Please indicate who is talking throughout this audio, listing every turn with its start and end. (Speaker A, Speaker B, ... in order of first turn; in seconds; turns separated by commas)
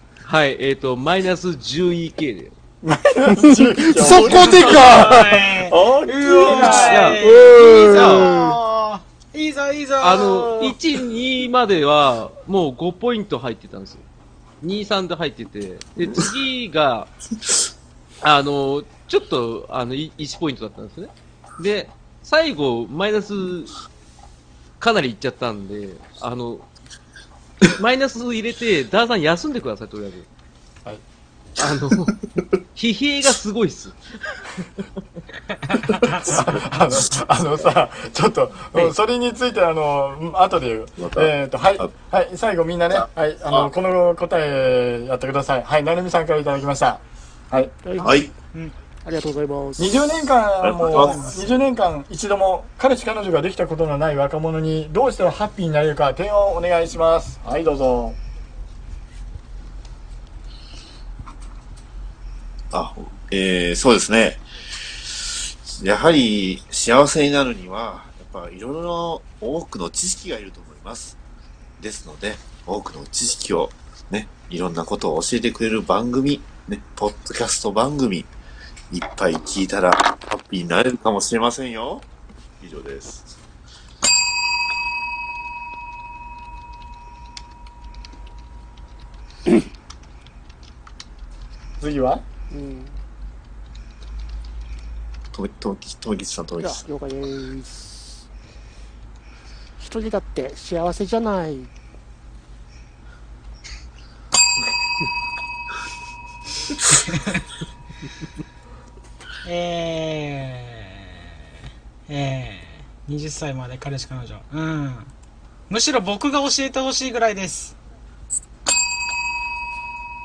Speaker A: 0.2-2.5, Speaker B: 2.8-7.2, Speaker C: 4.0-5.4, Speaker D: 4.1-10.8, Speaker A: 6.5-8.4, Speaker C: 7.2-8.6, Speaker A: 10.0-14.0, Speaker A: 14.6-17.1, Speaker A: 18.2-23.7, Speaker A: 24.8-26.6, Speaker A: 27.6-30.3, Speaker A: 31.6-32.1, Speaker A: 32.8-34.4, Speaker D: 35.9-36.4, Speaker B: 35.9-47.8, Speaker E: 41.0-41.9, Speaker E: 42.9-43.7, Speaker C: 47.9-48.3, Speaker E: 48.0-48.3, Speaker C: 49.0-50.0, Speaker B: 49.8-58.2, Speaker E: 50.6-51.2, Speaker D: 50.9-51.5, Speaker E: 62.7-64.4, Speaker E: 65.7-71.2, Speaker E: 71.8-78.3, Speaker E: 78.9-82.1, Speaker E: 82.6-83.3, Speaker B: 91.8-92.2, Speaker C: 92.5-93.0, Speaker E: 95.3-96.8, Speaker C: 96.6-98.1, Speaker C: 99.8-101.7, Speaker D: 109.4-111.3, Speaker D: 112.1-115.1, Speaker D: 115.7-117.8